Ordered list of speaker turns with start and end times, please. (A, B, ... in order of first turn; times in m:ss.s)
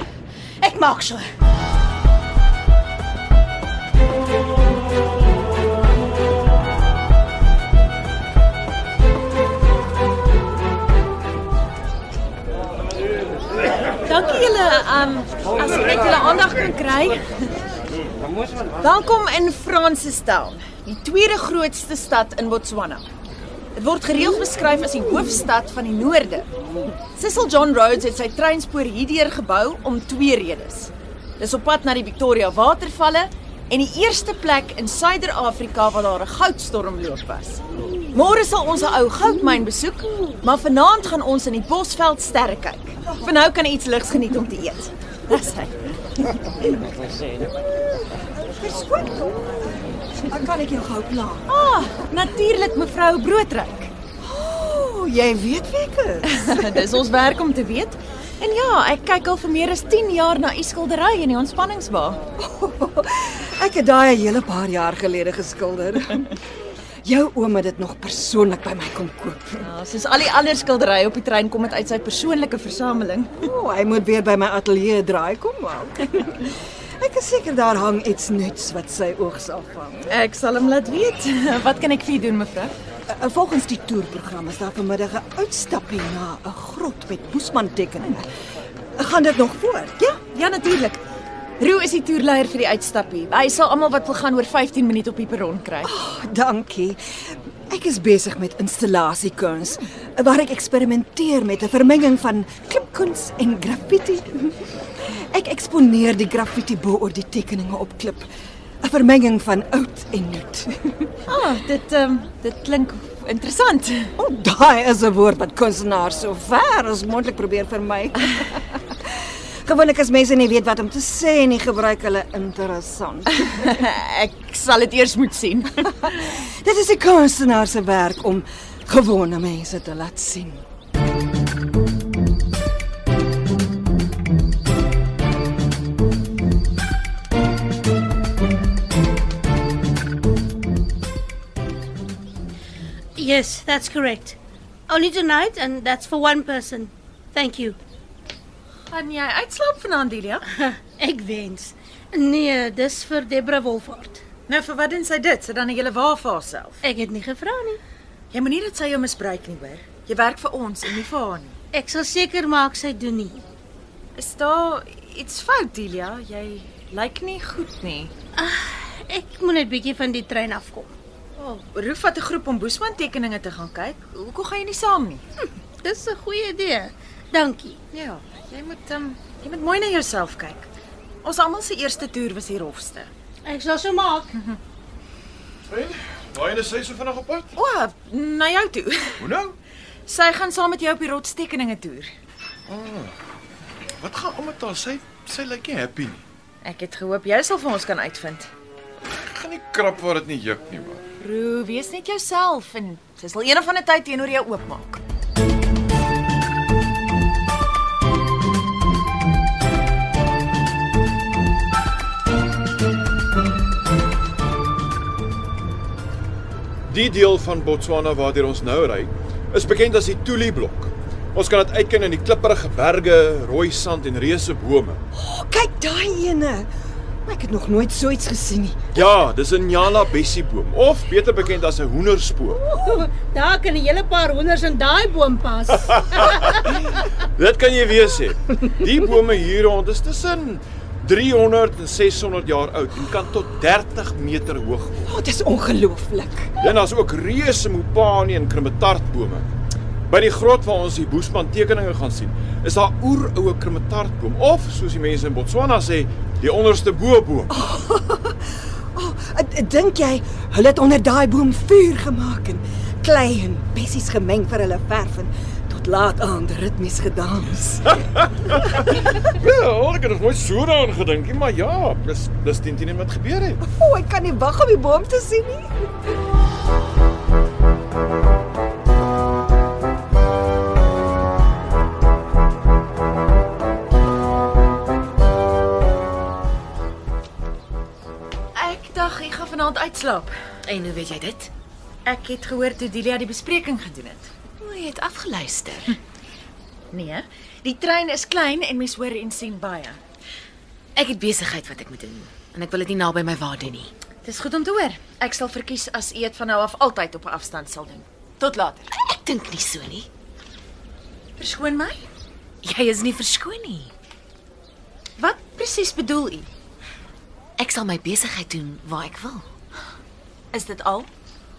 0:00.6-0:01.2 A
0:14.0-0:17.6 B
0:18.8-0:23.0 B
0:23.7-0:26.5 B
0:27.1-0:46.7 B
0:48.4-0:51.4 C
0:51.5-0:53.9 B
0:54.2-0:56.9 C
0:56.2-1:02.2 B
1:02.4-1:06.4 C
1:07.0-1:09.7 C
1:09.6-1:13.3 B
1:13.4-1:20.1 C
1:20.1-1:22.7 B
1:23.1-1:28.3 C
1:29.0-1:30.2 C
1:30.2-1:31.0 B
1:31.6-1:35.9 B
1:35.8-1:37.0 C
1:37.7-1:44.6 C
1:45.3-1:48.2 C
1:48.8-1:51.0 C
1:51.3-1:54.1 B
1:54.2-1:58.9 C
1:59.6-2:03.5 C
2:03.4-2:06.0 B
2:06.0-2:10.6 C
2:23.2-2:24.4 A
2:24.9-2:27.8 A
2:28.9-2:30.4 B
2:30.5-2:34.2 A
2:34.5-2:36.8 B
2:36.8-2:37.8 A
2:38.3-2:41.6 B
2:41.7-2:43.4 A
2:44.2-2:48.1 B
2:48.4-2:50.9 A
2:51.4-2:55.2 B
2:55.4-2:57.8 A
2:57.9-3:00.7 B
3:01.2-3:03.1 B
3:03.4-3:04.3 A
3:04.3-3:04.6 B
3:05.7-3:07.5 D
3:07.5-3:09.2 B
3:09.2-3:09.5 D
3:10.1-3:12.1 B
3:12.7-3:13.1 D
3:14.0-3:16.2 D
3:16.6-3:18.5 B
3:19.0-3:21.0 D
3:21.2-3:25.0 B
3:36.9-3:45.0 D
3:45.1-3:46.7 C
3:47.2-3:49.1 C
3:48.9-3:52.6 D
3:52.6-3:53.0 C
3:52.7-3:57.0 A
3:56.1-4:05.1 D
4:05.0-4:06.6 C
4:06.6-4:09.4 D
4:10.1-4:17.5 D
4:17.5-4:28.0 C
4:27.9-4:33.6 D
4:28.8-4:29.1 C
4:33.6-4:35.7 C
4:48.5-4:50.3 B
4:50.6-4:51.5 E
4:52.0-4:54.3 B
4:54.6-4:55.9 E
4:56.9-5:00.0 B
5:01.0-5:03.9 E
5:04.2-5:08.9 B
5:09.0-5:10.1 E
5:11.4-5:12.0 B
5:12.6-5:13.9 E
5:15.2-5:16.5 B
5:17.6-5:19.4 E
5:20.5-5:21.1 B